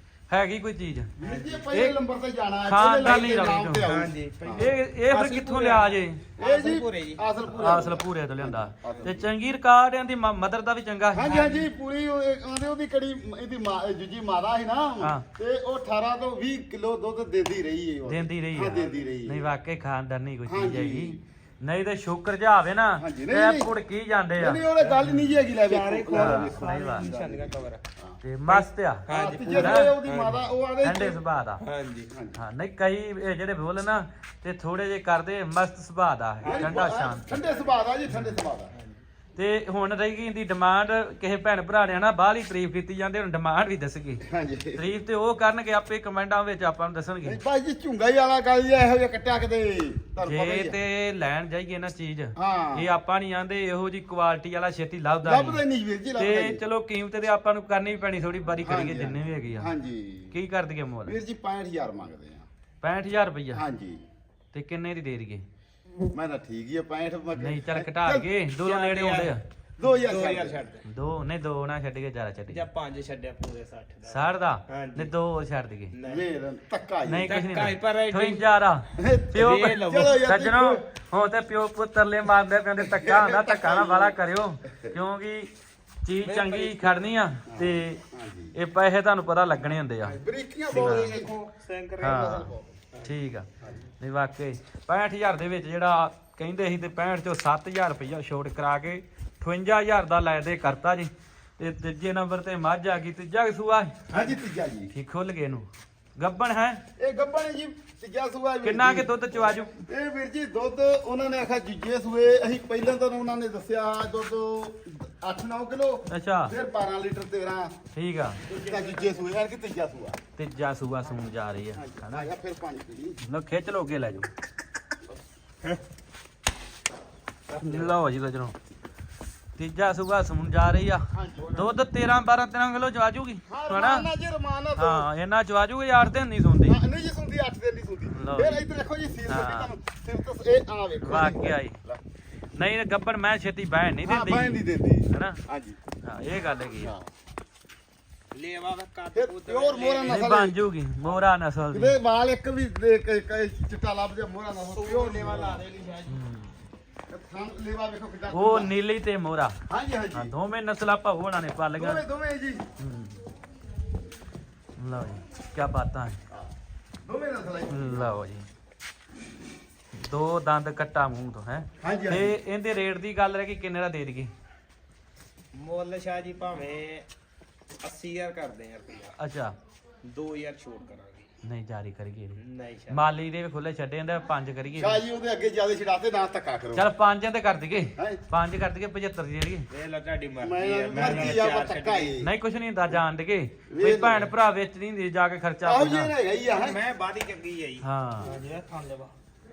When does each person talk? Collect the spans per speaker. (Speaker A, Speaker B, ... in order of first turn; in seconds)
Speaker A: 0.3-1.1, 1.7-2.0, 2.7-3.9, 4.5-6.2, 7.6-11.4, 15.0-15.2, 18.1-25.4, 26.1-27.1, 28.2-29.9, 30.8-31.6, 32.4-37.4, 38.1-38.4, 39.4-44.2, 44.8-47.4, 50.2-55.6, 56.2-59.7, 60.3-61.2, 62.8-63.6, 64.5-65.4, 67.4-69.4, 70.8-72.6, 74.0-75.9, 77.1-85.5, 86.0-88.0, 88.5-90.2, 90.7-91.2, 92.0-103.9, 104.9-106.8, 108.6-109.8, 116.1-116.5, 117.9-118.4, 120.4-122.3, 123.2-124.3, 127.6-128.6, 129.6-134.1, 134.8-136.8, 138.1-138.7, 139.3-139.7, 141.0-141.8, 142.6-145.4, 146.0-146.9, 150.1-152.0, 156.1-156.5, 158.3-159.6, 160.1-162.0, 162.8-163.2, 164.8-166.2, 167.7-168.5, 169.9-174.3, 179.2-179.5, 181.4-182.4, 182.9-185.0, 186.7-189.7, 192.2-196.1, 197.8-198.3
Speaker B: 1.2-4.7, 6.4-9.3, 11.1-19.5, 20.5-21.2, 23.0-23.7, 24.4-28.2, 29.1-31.2, 32.1-32.4, 36.4-38.7, 44.2-44.8, 47.2-50.8, 52.4-52.9, 55.2-56.6, 58.6-60.4, 61.0-62.5, 63.5-64.0, 66.1-68.3, 69.8-70.6, 76.0-77.3, 79.0-80.8, 82.8-84.2, 87.5-88.5, 90.0-91.3, 92.1-92.7, 93.6-93.8, 104.1-104.9, 107.0-117.8, 118.5-120.2, 121.7-123.2, 131.1-131.8, 133.5-135.1, 136.7-142.0, 144.0-145.8, 146.8-147.1, 149.1-150.6, 151.7-155.7, 157.1-158.7, 159.7-160.3, 161.8-162.6, 167.0-168.1, 171.8-172.3, 184.8-186.9, 190.4-192.3, 193.7-194.3, 195.6-196.8
Speaker C: 1.2-1.7, 3.8-7.2, 11.2-11.7, 25.6-27.8, 28.5-30.4, 31.6-32.1, 36.4-37.8, 38.7-39.0, 68.6-70.8, 72.5-75.1, 75.9-76.2, 77.2-78.4, 79.3-80.2, 86.2-87.1, 90.7-93.1, 118.5-119.2, 127.5-127.9, 148.3-150.4, 154.6-156.2, 175.5-177.1, 177.8-179.1, 180.0-181.3, 182.4-183.0, 189.7-192.2, 196.5-199.1